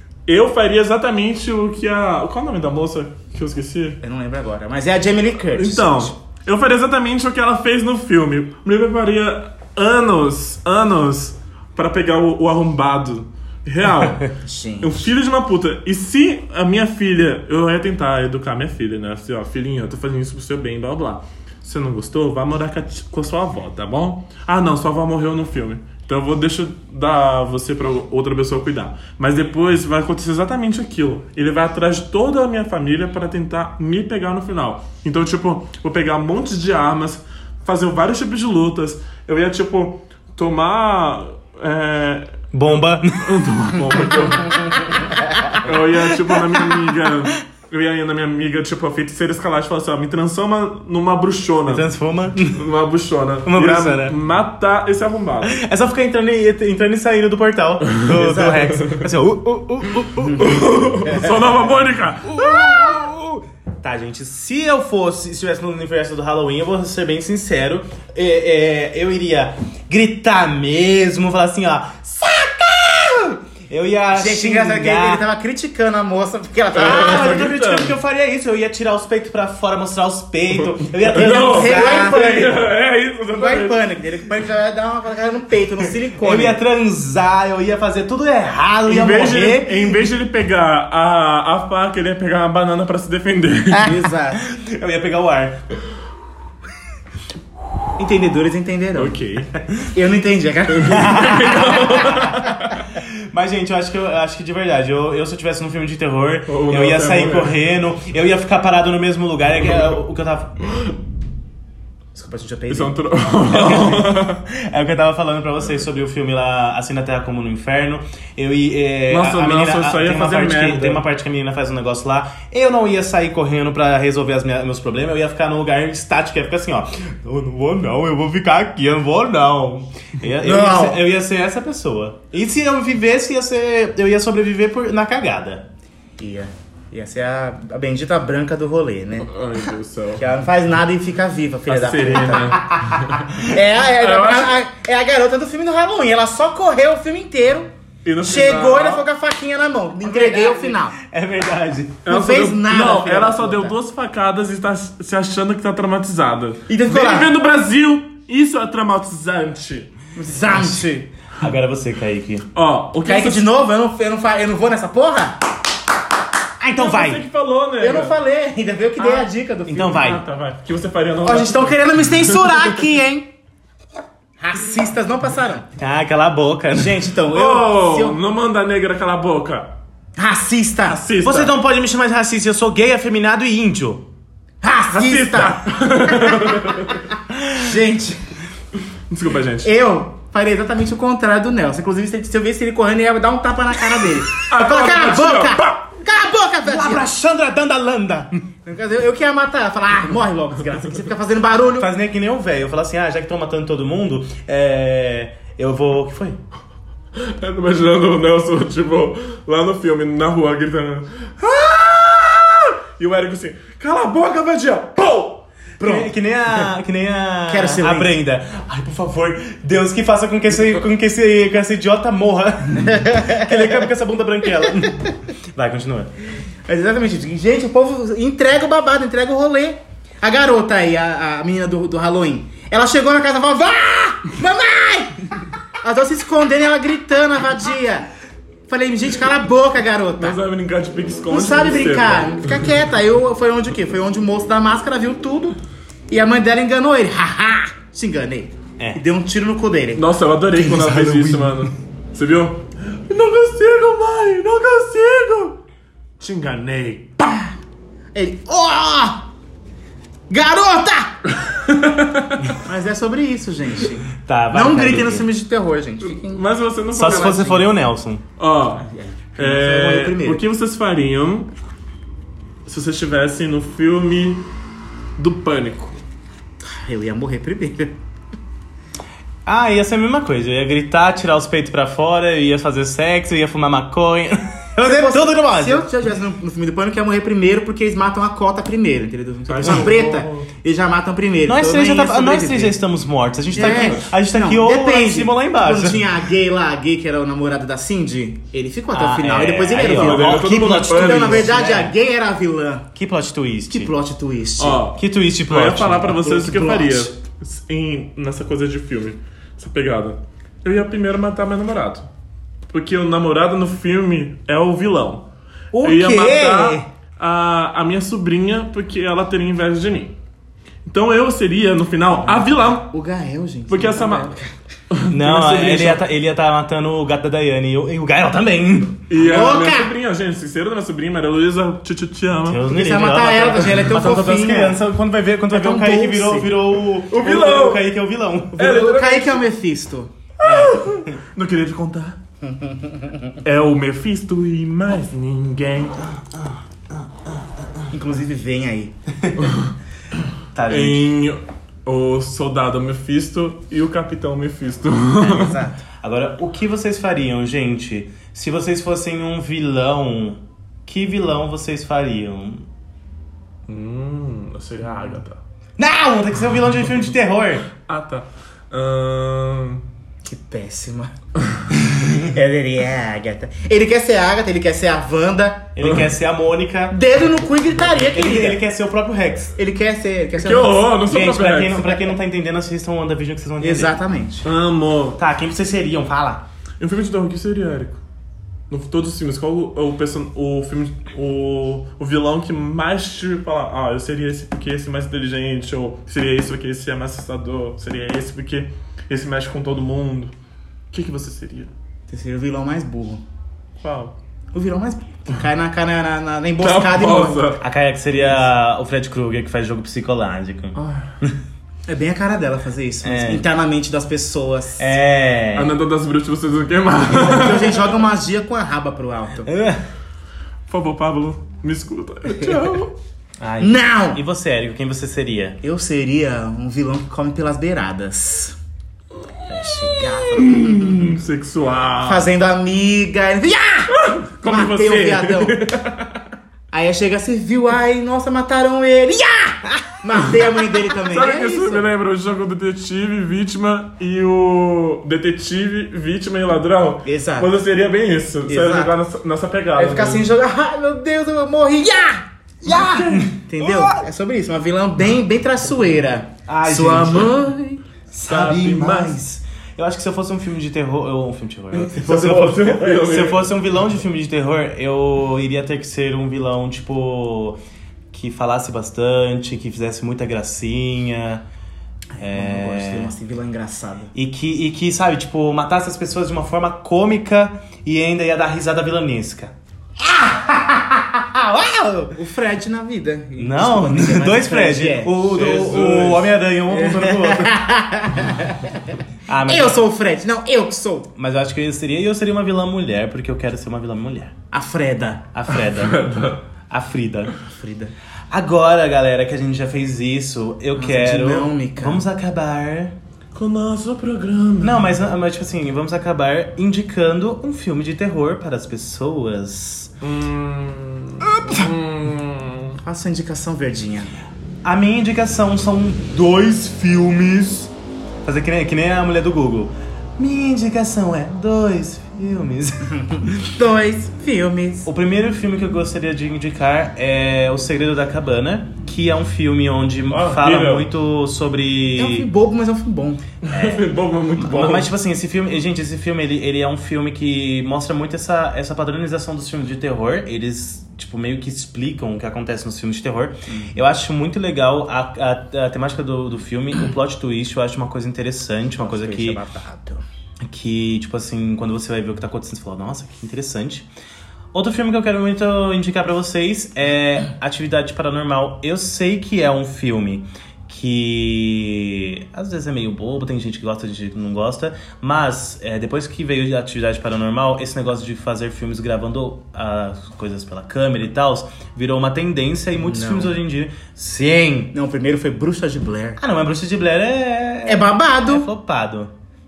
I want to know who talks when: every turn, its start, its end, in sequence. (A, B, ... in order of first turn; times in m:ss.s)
0:00.3-0:04.0 A
0:04.0-0:06.2 B
0:05.5-0:42.5 A
0:14.4-0:15.1 B
0:42.5-0:43.4 C
0:43.2-0:51.9 A
0:45.0-0:45.7 C
0:46.3-0:46.8 C
0:51.7-0:52.6 C
0:52.5-0:55.6 A
0:53.4-0:54.2 C
0:55.4-1:00.6 C
0:58.0-0:58.9 A
0:58.1-0:58.8 B
1:00.2-1:01.4 B
1:00.4-1:02.6 A
1:02.2-1:15.2 C
1:14.1-1:17.5 B
1:16.8-1:18.0 A
1:16.8-1:22.5 C
1:20.6-1:23.9 A
1:21.2-1:22.6 B
1:23.3-1:26.6 B
1:26.1-1:29.9 C
1:28.9-1:34.0 A
1:33.8-1:34.4 B
1:34.3-1:35.6 C
1:38.0-1:39.2 B
1:39.0-1:39.6 A
1:39.9-1:42.3 B
1:40.7-1:42.8 A
1:40.9-1:50.6 C
1:46.5-1:47.6 A
1:52.2-1:53.9 B
1:52.7-1:54.4 A
1:53.5-2:15.7 C
1:59.1-2:01.0 A
2:10.4-2:11.1 B
2:16.2-2:19.3 B
2:19.2-2:20.2 A
2:20.2-2:22.7 B
2:21.7-2:24.5 A
2:23.4-2:27.7 B
2:28.0-2:29.0 A
2:28.2-2:31.0 B
2:30.0-2:32.0 C
2:32.0-2:39.9 A
2:32.1-2:33.8 B
2:36.7-2:37.3 B
2:40.2-2:41.1 B
2:41.4-2:42.5 C
2:42.5-2:43.5 A
2:43.0-2:45.4 B
2:46.6-2:47.2 C
2:46.8-2:48.2 A
2:47.8-2:50.1 B
2:49.0-2:49.3 A
2:49.7-2:50.2 C
2:49.8-2:52.8 A
2:51.2-2:53.3 B
2:54.4-2:55.7 B
2:55.8-2:57.0 C
2:56.7-2:58.2 B
2:57.3-2:59.7 A
3:00.2-3:01.0 B
3:00.9-3:01.5 A
3:01.2-3:04.0 C
3:04.6-3:08.2 B
3:04.9-3:07.0 A
3:09.1-3:09.7 A
3:09.6-3:17.1 B
3:14.3-3:15.8 A
3:16.6-3:18.3 C
3:18.6-3:21.9 B
3:21.8-3:26.4 C
3:27.2-3:35.4 A
3:35.8-3:36.1 B
3:35.8-3:46.1 C
3:37.5-3:38.2 B
3:42.8-3:43.9 B
3:44.6-3:45.1 B
3:46.7-3:58.1 B
3:58.7-4:00.4 B
4:00.2-4:02.7 A
4:01.3-4:05.6 B
4:06.1-4:10.0 B
4:10.0-4:15.6 A
4:10.6-4:11.6 C
4:16.2-4:17.5 A
4:18.1-4:19.3 B
4:20.3-4:21.2 B
4:21.3-4:22.6 A
4:22.6-4:26.4 B
4:24.2-4:25.3 C
4:26.0-4:27.6 A
4:26.9-4:28.2 C
4:27.0-4:27.7 B
4:28.4-4:31.5 A
4:28.8-4:30.4 B
4:32.7-4:34.5 A
4:35.2-4:36.0 A
4:36.6-4:38.0 B
4:39.5-4:45.9 C
4:44.8-4:52.8 B
4:49.5-4:50.5 A
4:51.4-4:56.1 C
4:53.5-5:02.9 B
4:53.6-4:54.1 A
4:58.9-5:01.9 C
4:59.8-5:01.5 A
5:03.0-5:03.9 C
5:03.7-5:04.8 B
5:04.6-5:12.1 A
5:05.0-5:06.2 C
5:06.1-5:07.1 B
5:12.7-5:15.2 A
5:15.8-5:16.8 B
5:15.8-5:20.2 A
5:20.9-5:22.9 A
5:22.2-5:24.5 B
5:23.7-5:24.3 A
5:24.9-5:26.0 A
5:25.1-5:29.0 C
5:29.1-5:32.7 A
5:29.1-5:29.9 B
5:32.5-5:38.6 C
5:32.7-5:34.8 B
5:35.5-5:36.6 B
5:37.0-5:37.9 A
5:38.6-5:39.4 A
5:38.6-5:40.1 B
5:40.4-5:41.2 C
5:40.4-5:42.2 A
5:42.4-5:43.4 B
5:43.4-5:46.0 A
5:46.3-5:47.4 C
5:47.9-5:48.9 B
5:49.4-5:49.7 A
5:50.5-5:51.0 C
5:50.7-5:55.7 A
5:55.2-5:55.8 B
5:56.0-6:02.7 C
6:03.7-6:05.4 A
6:05.8-6:07.7 C
6:07.8-6:09.8 A
6:10.2-6:11.1 B
6:11.7-6:15.8 B
6:15.8-6:17.0 C
6:16.9-6:18.6 B
6:18.0-6:19.6 C
6:19.6-6:21.0 B
6:20.4-6:21.9 A
6:21.0-6:24.0 C
6:23.6-6:24.4 B
6:24.4-6:25.2 A
6:25.2-6:26.4 C
6:26.8-6:28.0 A
6:28.7-6:40.3 A
6:40.9-6:41.7 A
6:42.1-6:43.2 B
6:43.8-6:44.1 A
6:44.5-6:47.6 B
6:46.6-6:47.6 A
6:47.6-6:51.4 C
6:50.8-6:51.1 A
6:51.9-6:55.0 B
6:53.0-6:53.4 C
6:54.8-6:55.8 C
6:55.6-6:57.9 A
6:57.1-6:59.5 B
6:59.5-6:59.8 C
7:00.7-7:02.9 A
7:02.3-7:02.8 B
7:03.4-7:05.6 C
7:03.6-7:04.2 B
7:05.6-7:08.6 B
7:09.5-7:11.2 B
7:09.9-7:12.2 A
7:12.0-7:13.9 B
7:13.9-7:16.2 A
7:14.4-7:15.6 B
7:16.7-7:21.9 B
7:21.0-7:30.3 A
7:27.0-7:27.5 B
7:28.5-7:28.9 B
7:29.8-7:37.8 B
7:32.7-7:33.3 A
7:32.7-7:34.0 C
7:36.5-7:37.3 C
7:38.1-7:47.6 C
7:38.3-7:39.2 A
7:41.7-7:43.5 A
7:48.1-7:51.4 C
7:52.2-7:54.1 B
7:52.2-7:53.1 C
7:54.1-8:02.2 C
8:02.1-8:05.2 B
8:03.4-8:07.6 C
8:05.3-8:06.3 A
8:06.7-8:11.1 B
8:09.3-8:09.8 C
8:11.2-8:14.3 C
8:14.5-8:15.3 B
8:15.3-8:16.1 C
8:15.6-8:16.4 A
8:16.7-8:17.3 C
8:17.5-8:17.9 B
8:18.3-8:23.0 C
8:20.8-8:22.1 B
8:23.3-8:25.0 A
8:24.6-8:29.9 C
8:30.0-8:32.8 A
8:31.3-8:31.6 C
8:32.8-8:34.1 B
8:34.6-8:37.7 C
8:38.2-8:43.5 C
8:43.5-8:44.9 B
8:44.9-8:52.3 C
8:50.1-8:50.9 A
8:52.0-8:53.2 B
8:53.4-8:54.9 A
8:53.5-8:53.9 C
8:54.4-9:09.4 C
9:08.8-9:10.0 B
9:10.4-9:13.9 C
9:14.5-9:34.7 C
9:32.8-9:33.4 B
9:34.7-9:36.2 B
9:36.2-9:39.1 C
9:37.7-9:38.5 B